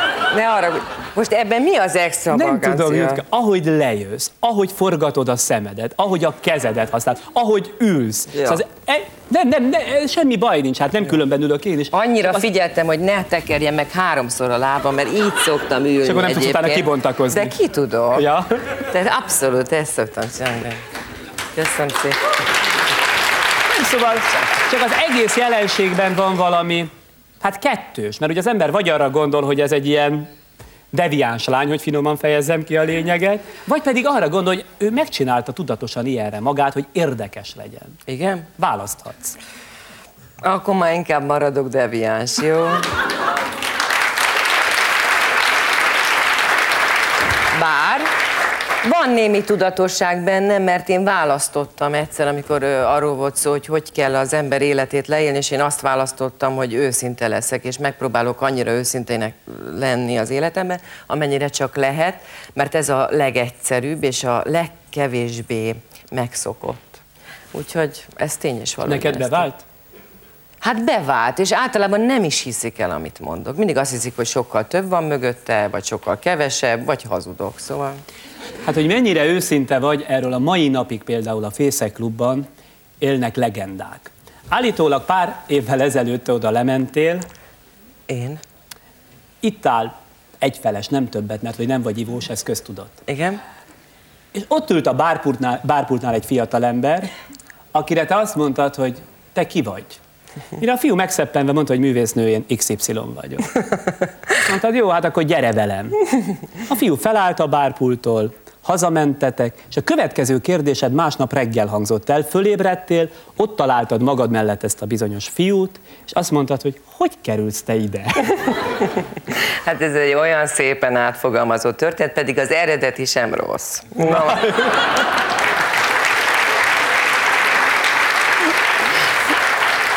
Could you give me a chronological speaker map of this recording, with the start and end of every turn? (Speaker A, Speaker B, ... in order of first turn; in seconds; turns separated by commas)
Speaker A: 0.3-3.2, Speaker B: 2.3-12.4, Speaker A: 8.3-8.6, Speaker A: 11.9-18.3, Speaker B: 16.0-17.6, Speaker B: 18.1-18.5, Speaker A: 18.8-20.8, Speaker A: 21.6-22.2, Speaker B: 23.7-26.9, Speaker B: 27.4-30.3, Speaker B: 30.9-38.0, Speaker A: 38.1-38.5, Speaker B: 38.6-39.4, Speaker A: 40.4-42.9, Speaker A: 47.5-48.1, Speaker A: 48.8-67.0, Speaker A: 67.5-69.5, Speaker B: 68.8-69.6, Speaker A: 70.6-78.0, Speaker B: 78.6-82.5, Speaker B: 83.0-87.3, Speaker A: 88.1-88.4, Speaker B: 89.4-92.9, Speaker A: 93.1-93.4, Speaker B: 94.3-97.1, Speaker B: 97.7-100.0, Speaker B: 100.6-103.6, Speaker B: 104.4-106.1, Speaker B: 106.6-118.3, Speaker A: 119.6-124.7